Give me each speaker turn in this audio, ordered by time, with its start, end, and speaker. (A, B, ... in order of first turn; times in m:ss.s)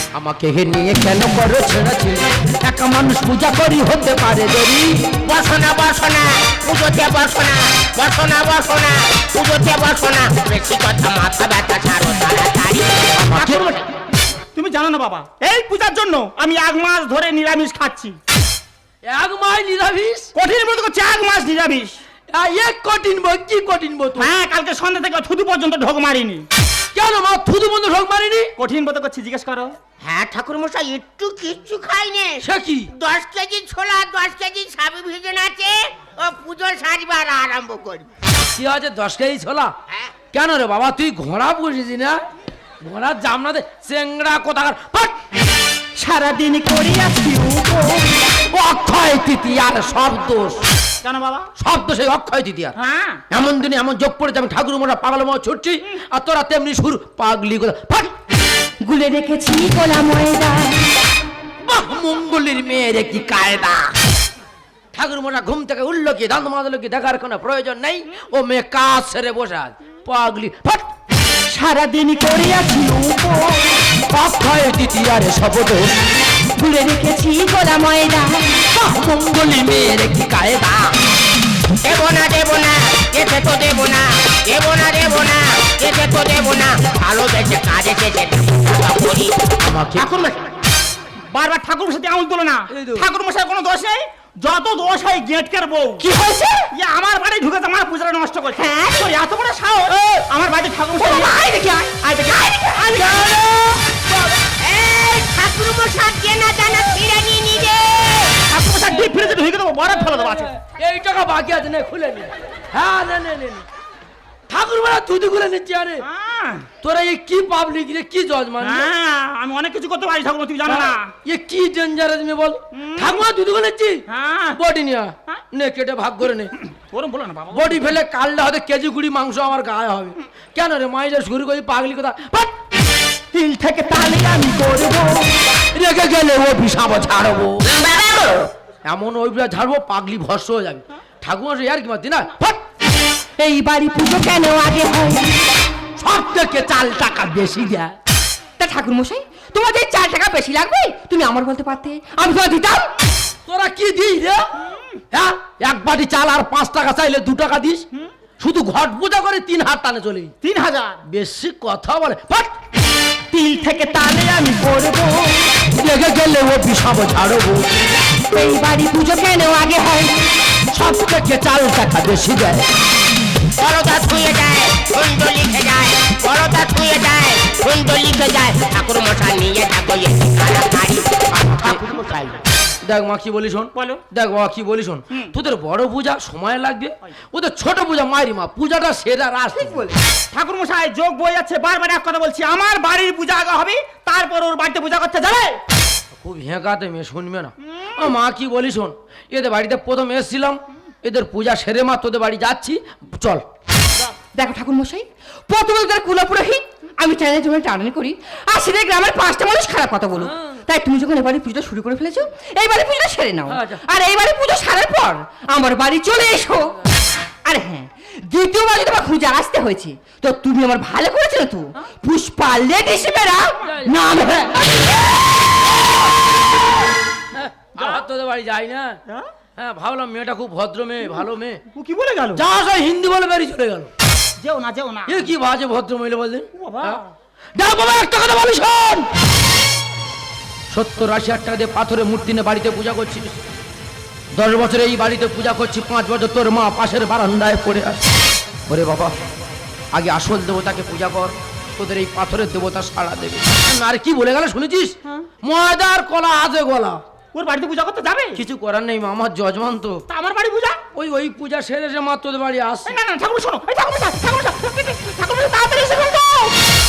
0:00.1-0:05.2 A
0:05.2-0:13.8 B
0:13.2-0:13.6 A
0:13.4-0:13.7 C
0:14.5-0:18.2 C
0:19.0-0:20.3 A
0:20.3-0:22.0 C
0:22.3-0:24.3 A
0:24.1-0:26.4 C
0:26.9-0:28.5 A
0:28.6-0:29.7 C
0:30.0-0:38.1 B
0:32.4-0:32.9 A
0:38.5-0:39.7 A
0:39.9-0:40.1 B
0:40.3-0:42.2 A
0:42.8-0:45.2 A
0:46.0-0:48.2 C
0:48.5-0:50.6 A
0:51.0-0:51.5 C
0:51.6-0:52.7 A
0:52.8-0:53.2 C
0:53.3-0:58.1 A
0:58.8-1:00.8 D
1:01.6-1:03.8 A
1:04.9-1:10.9 A
1:11.5-1:13.6 C
1:14.1-1:15.9 A
1:16.6-1:18.6 D
1:18.7-1:20.8 A
1:21.8-1:30.4 B
1:29.6-1:30.1 A
1:31.3-1:36.0 C
1:32.7-1:33.1 A
1:36.0-1:36.7 D
1:36.7-1:41.4 C
1:38.6-1:39.1 D
1:41.0-1:43.0 D
1:42.0-1:43.2 C
1:42.9-1:44.2 A
1:44.6-1:48.4 B
1:48.4-1:50.5 C
1:49.9-1:53.6 A
1:54.5-1:56.0 A
1:56.0-1:56.7 C
1:56.8-1:58.9 A
1:58.6-2:01.1 C
2:00.6-2:04.0 A
2:02.7-2:03.2 C
2:04.1-2:04.6 C
2:04.5-2:06.5 A
2:06.7-2:07.9 C
2:07.5-2:12.5 A
2:13.3-2:15.4 C
2:15.7-2:17.8 A
2:17.8-2:18.3 B
2:18.8-2:22.6 A
2:23.4-2:25.3 D
2:26.0-2:27.9 A
2:28.6-2:32.9 D
2:33.4-2:34.5 A
2:35.1-2:37.8 A
2:38.4-2:40.3 A
2:40.4-2:41.0 C
2:41.0-2:42.5 A
2:43.3-2:45.4 C
2:45.7-2:47.6 A
2:48.3-2:50.1 D
2:50.7-2:52.6 A
2:53.6-3:02.4 B
3:02.8-3:09.9 A
3:03.7-3:04.0 C
3:10.3-3:15.6 C
3:16.1-3:23.4 A
3:17.6-3:18.1 C
3:24.3-3:36.8 D
3:30.1-3:30.6 A
3:33.4-3:33.8 A
3:37.4-3:44.8 D
3:43.6-3:44.1 A
3:47.3-3:49.0 A
3:47.8-3:48.0 C
3:49.6-3:51.6 A
3:51.7-3:52.4 C
3:52.3-3:53.9 A
3:54.4-3:55.3 C
3:55.1-3:57.0 A
3:56.5-3:57.1 C
3:57.6-3:59.1 A
4:00.7-4:03.4 A
4:04.3-4:08.0 A
4:08.7-4:09.2 A
4:09.9-4:17.0 A
4:17.3-4:18.4 C
4:18.3-4:20.0 A
4:20.1-4:20.8 C
4:20.9-4:23.0 A
4:22.8-4:26.5 C